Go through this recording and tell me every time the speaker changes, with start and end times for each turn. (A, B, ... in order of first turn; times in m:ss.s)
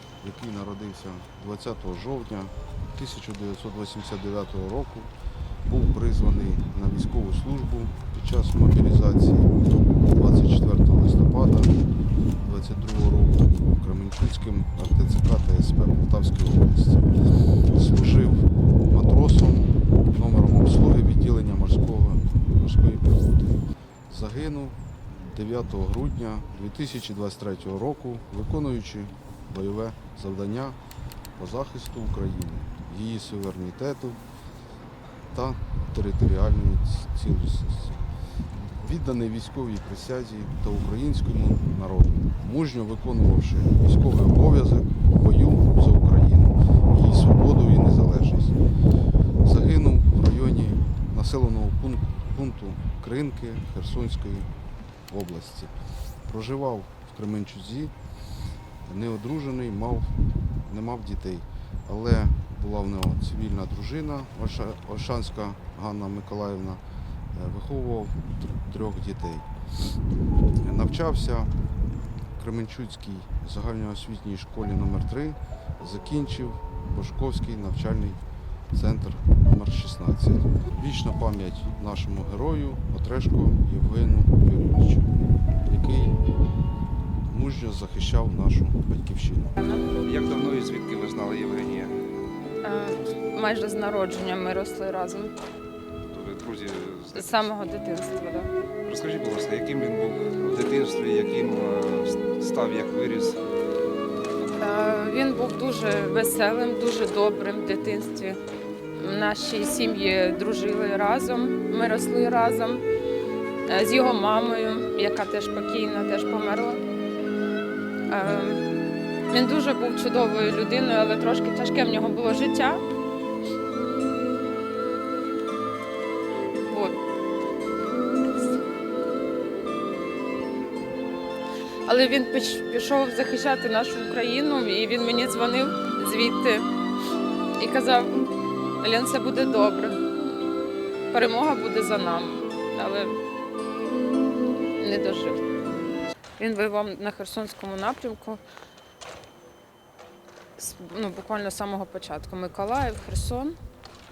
0:00.2-0:05.1 A
0:05.7-0:11.8 A
0:12.4-0:17.1 A
0:17.7-0:30.8 A
0:31.4-0:34.2 A
0:35.3-0:38.0 A
0:38.5-0:48.6 A
0:49.4-0:54.5 A
0:55.1-0:55.7 A
0:56.2-0:57.9 A
0:58.8-1:06.8 A
1:07.3-1:09.5 A
1:10.6-1:11.5 A
1:12.4-1:18.2 A
1:18.7-1:26.2 A
1:27.3-1:29.6 A
1:29.6-1:29.8 B
1:30.0-1:32.0 C
1:32.6-1:35.3 B
1:36.1-1:37.4 C
1:37.1-1:38.5 B
1:38.8-1:43.4 C
1:44.6-1:48.4 B
1:49.0-1:52.8 B
1:53.7-1:56.8 B
1:58.1-1:58.6 B
1:59.3-2:02.8 B
2:06.6-2:07.0 B
2:11.9-2:16.7 B
2:17.6-2:20.1 B
2:21.1-2:23.2 B
2:24.8-2:25.4 B
2:26.4-2:28.4 B
2:30.6-2:33.6 B